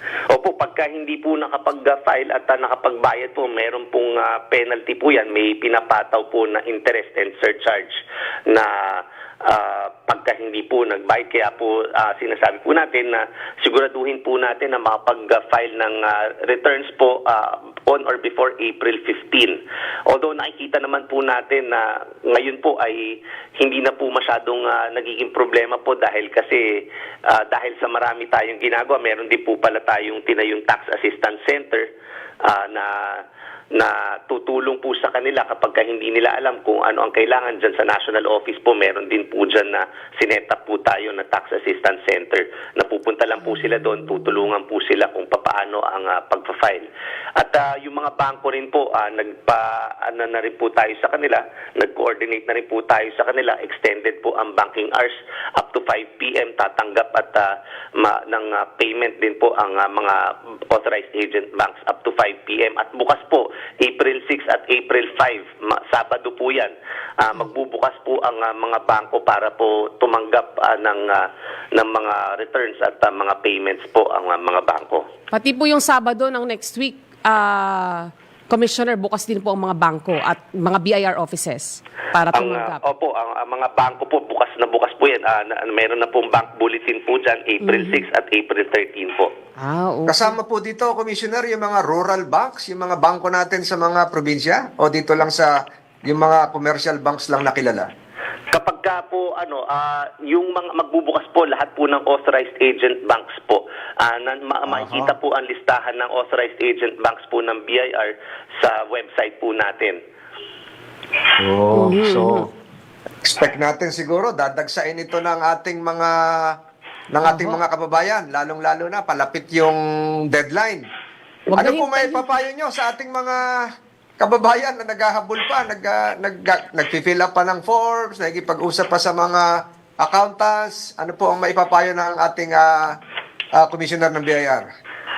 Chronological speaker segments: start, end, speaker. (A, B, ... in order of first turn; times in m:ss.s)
0:00.3-0:31.9 A
0:32.4-0:33.2 A
0:33.8-0:46.9 A
0:47.4-1:15.0 A
1:15.3-1:22.8 B
1:22.3-1:29.3 A
1:27.6-1:28.0 B
1:29.6-1:30.4 B
1:30.1-1:35.5 C
1:36.1-1:37.9 C
1:38.5-1:50.0 A
1:44.7-1:45.1 C
1:51.4-1:52.4 C
1:51.7-1:52.5 B
1:53.2-1:56.2 C
1:57.1-1:59.8 C
1:57.2-1:57.6 B
2:00.3-2:00.8 C
2:01.5-2:02.3 B
2:01.6-2:03.5 C
2:04.2-2:09.5 C
2:10.0-2:12.8 C
2:13.6-2:14.6 C